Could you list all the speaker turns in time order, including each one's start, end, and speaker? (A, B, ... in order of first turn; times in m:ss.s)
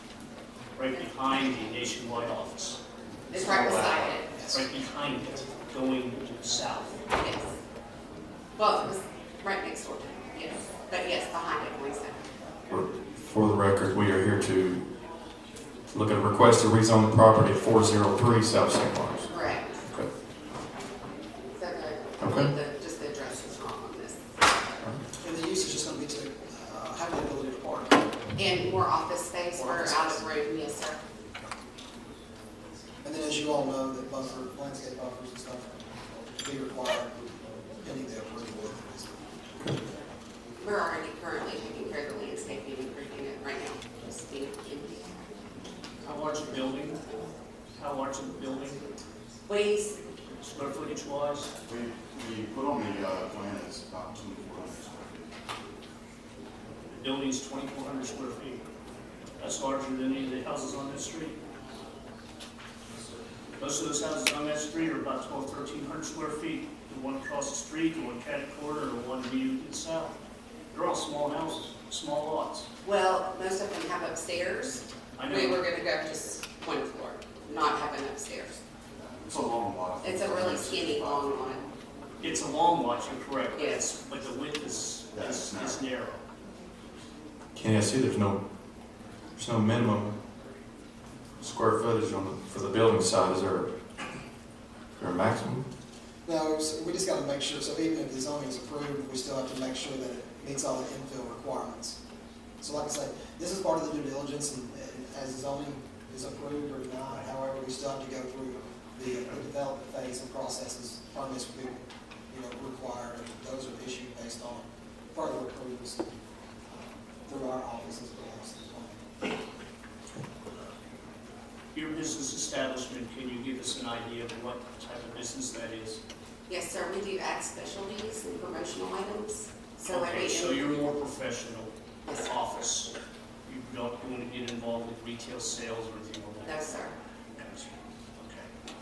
0:00.8-0:02.8 A
0:03.3-0:04.4 B
0:04.5-0:07.0 A
0:07.1-0:07.5 B
0:08.5-0:12.2 B
0:12.7-0:14.8 C
0:15.9-0:19.3 C
0:19.3-0:19.8 B
0:21.6-0:24.2 B
0:22.2-0:22.5 C
0:25.2-0:28.1 D
0:28.4-0:31.0 B
0:33.0-0:37.2 D
0:37.8-0:39.2 D
0:40.6-0:45.0 B
0:46.0-0:47.0 A
0:47.7-0:48.9 A
0:49.5-0:50.0 B
0:50.4-0:51.5 A
0:51.6-0:55.3 E
0:56.9-0:58.6 A
0:59.4-1:01.4 A
1:03.6-1:10.2 A
1:10.7-1:12.7 A
1:12.8-1:18.6 B
1:15.2-1:15.6 A
1:19.0-1:21.5 E
1:20.0-1:21.6 B
1:22.2-1:26.2 A
1:23.5-1:23.8 B
1:25.1-1:25.8 E
1:27.5-1:28.4 C
1:29.4-1:30.2 C
1:31.4-1:33.7 C
1:35.0-1:35.6 C
1:36.2-1:42.0 D
1:42.6-1:51.8 D
1:52.3-1:56.1 D
1:56.7-1:59.0 D
2:01.7-2:06.0 A
2:06.5-2:10.9 B
2:09.9-2:12.9 A
2:12.0-2:12.3 B
2:13.4-2:16.8 A
2:16.4-2:16.9 B
2:17.4-2:18.5 A